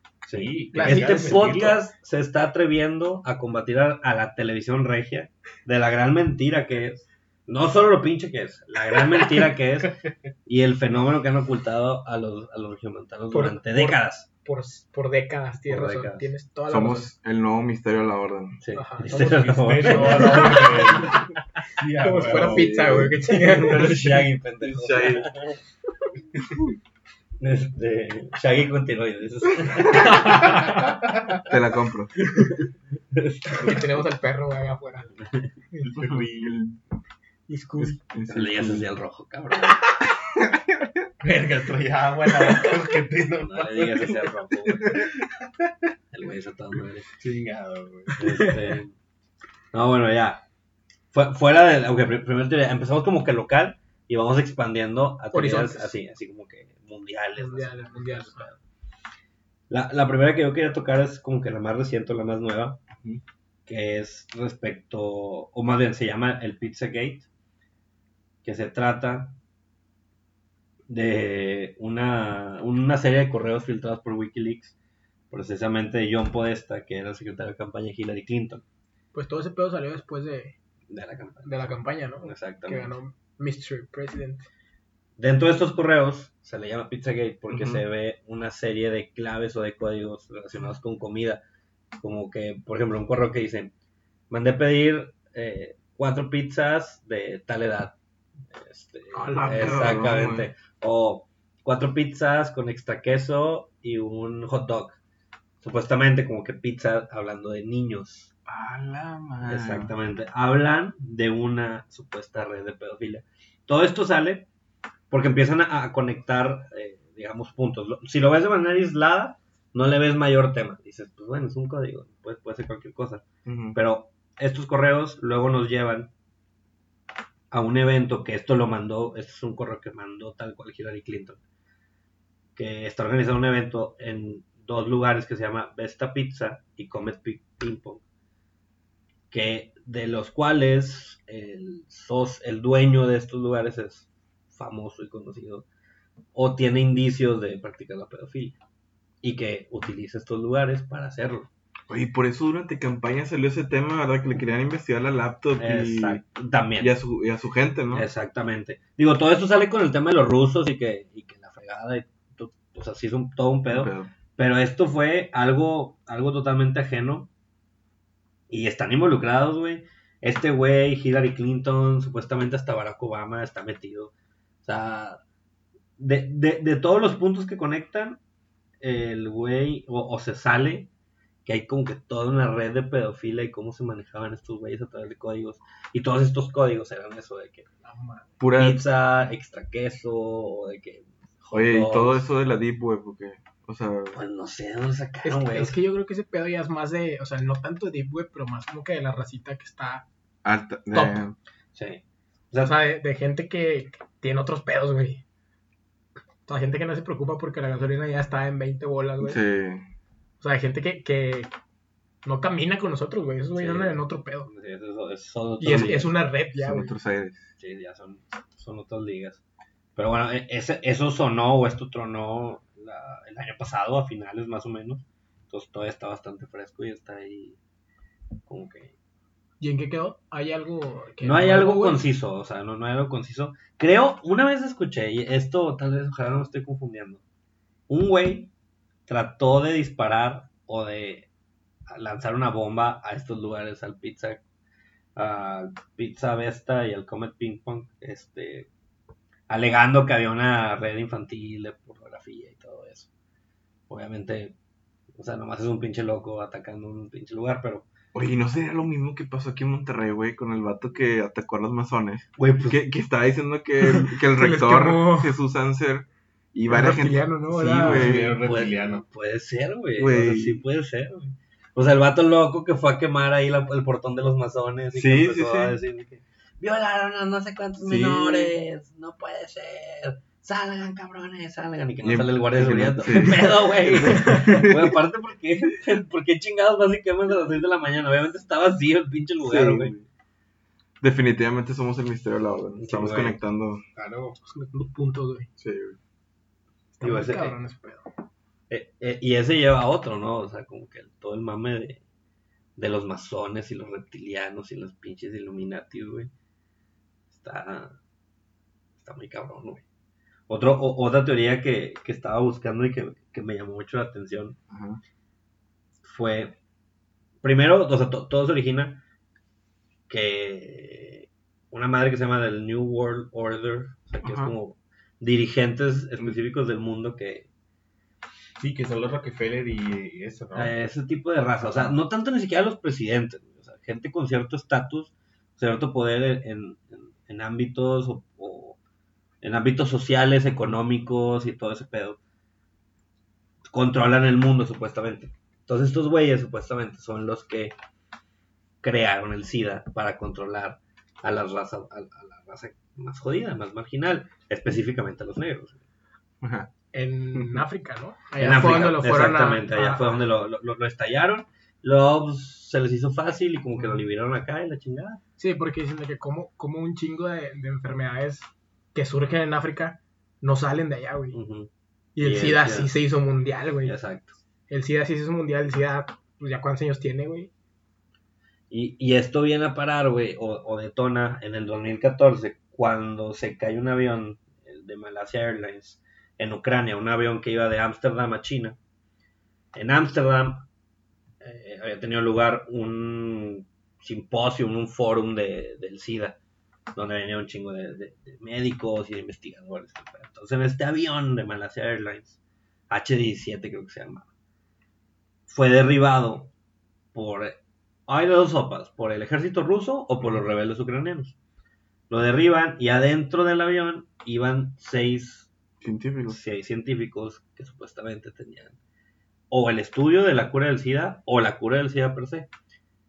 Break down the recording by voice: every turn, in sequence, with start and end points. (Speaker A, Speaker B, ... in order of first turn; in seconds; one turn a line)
Speaker A: 0.2-14.3
Speaker B: 0.3-1.8
Speaker C: 0.7-1.4
Speaker C: 13.3-17.1
Speaker A: 15.7-16.3
Speaker D: 16.7-18.6
Speaker A: 18.6-21.1
Speaker C: 18.7-19.1
Speaker B: 19.0-22.7
Speaker C: 19.8-21.2
Speaker C: 21.9-24.0
Speaker D: 22.3-25.3
Speaker A: 23.4-25.6
Speaker A: 27.4-30.7
Speaker C: 29.9-30.9
Speaker D: 31.4-32.1
Speaker A: 32.3-32.6
Speaker A: 33.1-33.8
Speaker C: 33.5-35.1
Speaker D: 35.8-36.8
Speaker C: 37.5-38.0
Speaker D: 37.8-38.9
Speaker A: 38.3-39.8
Speaker B: 41.2-45.7
Speaker A: 43.4-45.1
Speaker A: 46.1-47.1
Speaker B: 47.2-48.2
Speaker C: 48.2-48.7
Speaker A: 48.2-48.9
Speaker A: 49.7-50.4
Speaker A: 51.1-58.6
Speaker C: 55.3-55.9
Speaker C: 57.4-58.5
Speaker A: 59.7-62.8
Speaker A: 63.7-67.2
Speaker A: 68.4-69.3
Speaker A: 70.9-74.8
Speaker A: 75.3-78.6
Speaker C: 79.1-80.5
Speaker A: 80.9-81.7
Speaker C: 81.4-84.5
Speaker A: 82.2-83.0
Speaker A: 85.2-91.4
Speaker D: 87.5-87.8
Speaker A: 92.0-93.7
Speaker A: 94.3-98.0
Speaker A: 98.5-105.0
Speaker C: 99.1-100.0
Speaker D: 99.4-100.5
Speaker A: 105.6-108.3
Speaker D: 108.5-109.9
Speaker A: 109.4-114.5
Speaker A: 115.1-126.1
Speaker D: 123.4-123.8
Speaker A: 127.5-131.4
Speaker A: 132.6-138.0
Speaker A: 139.3-145.7
Speaker A: 146.3-148.6
Speaker A: 149.2-151.5
Speaker D: 151.9-156.2
Speaker A: 155.6-156.9
Speaker D: 156.8-158.1
Speaker A: 157.9-167.3
Speaker D: 163.7-164.1
Speaker A: 168.5-174.1
Speaker A: 174.6-175.2
Speaker A: 176.0-178.2
Speaker A: 178.8-180.9
Speaker A: 181.4-187.7
Speaker C: 187.8-188.3
Speaker D: 188.4-188.8
Speaker A: 188.5-192.2
Speaker D: 191.5-194.2
Speaker A: 194.1-195.8
Speaker C: 195.2-200.0
Speaker D: 200.4-201.3
Speaker C: 200.9-201.2
Speaker A: 201.7-202.8
Speaker C: 202.6-205.2
Speaker C: 206.4-209.4
Speaker D: 209.2-209.8
Speaker C: 210.4-211.5
Speaker C: 212.2-214.5
Speaker A: 213.6-216.2
Speaker C: 215.6-216.9
Speaker D: 216.6-217.5
Speaker A: 217.6-219.4
Speaker A: 219.9-227.6
Speaker A: 228.5-228.9
Speaker C: 229.6-232.0
Speaker A: 231.2-237.2
Speaker A: 237.9-238.5
Speaker A: 239.1-241.3
Speaker A: 241.9-244.4
Speaker A: 245.2-248.7
Speaker A: 249.5-253.1
Speaker A: 253.9-254.5
Speaker A: 255.1-257.9
Speaker D: 258.1-268.4
Speaker A: 262.4-262.8
Speaker C: 263.8-265.3
Speaker C: 266.7-268.1
Speaker A: 267.6-290.0
Speaker B: 267.8-269.0
Speaker D: 270.0-270.6
Speaker D: 274.9-275.8
Speaker D: 277.8-278.5
Speaker D: 282.0-284.9
Speaker D: 289.4-290.0
Speaker D: 291.0-293.8
Speaker A: 292.8-293.4
Speaker B: 293.9-294.4
Speaker C: 294.4-295.5
Speaker D: 295.6-296.0
Speaker C: 297.0-298.1
Speaker A: 297.0-297.6
Speaker A: 298.7-302.0
Speaker A: 302.8-306.3
Speaker A: 307.3-308.0
Speaker A: 309.0-309.8
Speaker A: 310.5-314.6
Speaker D: 314.7-315.0
Speaker A: 316.0-316.6
Speaker A: 317.4-319.0
Speaker A: 320.1-327.5
Speaker D: 324.2-324.5
Speaker B: 328.6-330.7
Speaker A: 330.5-338.8
Speaker B: 331.6-331.9
Speaker A: 339.4-342.2
Speaker A: 343.7-347.7
Speaker A: 348.8-355.8
Speaker D: 356.4-356.7
Speaker C: 356.9-360.2
Speaker D: 357.3-357.6
Speaker A: 358.4-365.2
Speaker D: 363.7-364.0
Speaker C: 365.4-371.4
Speaker A: 371.3-372.9
Speaker C: 372.1-374.0
Speaker A: 373.8-374.4
Speaker C: 374.7-377.5
Speaker A: 378.7-388.8
Speaker A: 389.7-390.6
Speaker A: 391.4-396.4
Speaker A: 396.9-402.4
Speaker A: 402.9-404.3
Speaker A: 405.5-406.5
Speaker A: 407.1-411.3
Speaker A: 412.1-415.5
Speaker D: 415.8-416.4
Speaker A: 416.3-418.8
Speaker A: 419.5-422.5